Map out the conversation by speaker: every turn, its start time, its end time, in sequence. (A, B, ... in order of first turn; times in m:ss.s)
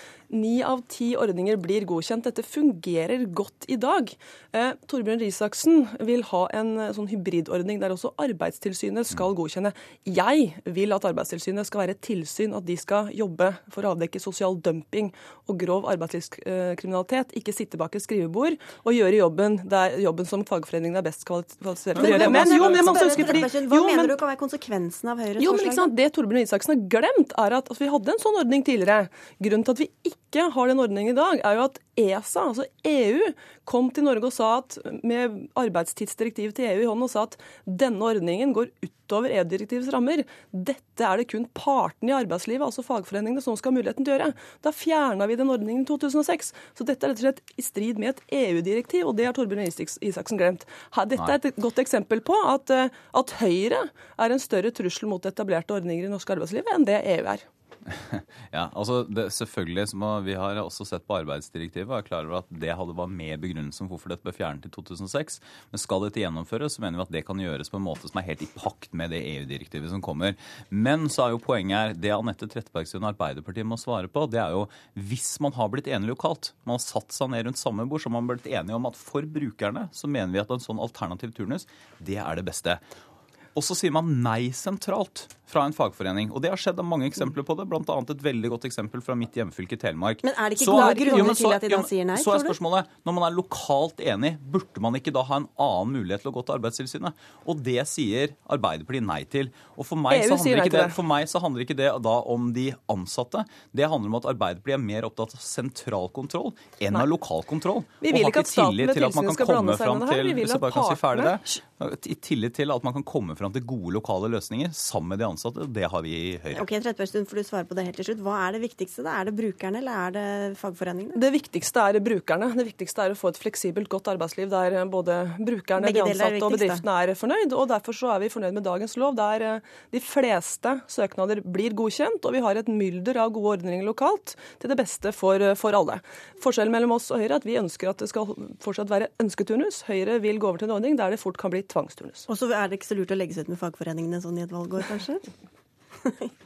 0:00.3-0:24.1 A
0:21.9-0:25.9 B
0:25.4-0:57.5 A
0:57.9-1:22.8 C
1:23.6-1:56.7 C
1:30.2-1:32.6 B
1:30.8-1:31.3 A
1:40.1-1:41.0 A
1:48.0-1:51.4 A
1:56.5-2:01.2 B
2:01.2-2:22.3 A
2:05.8-2:06.8 B
2:22.3-2:25.2 B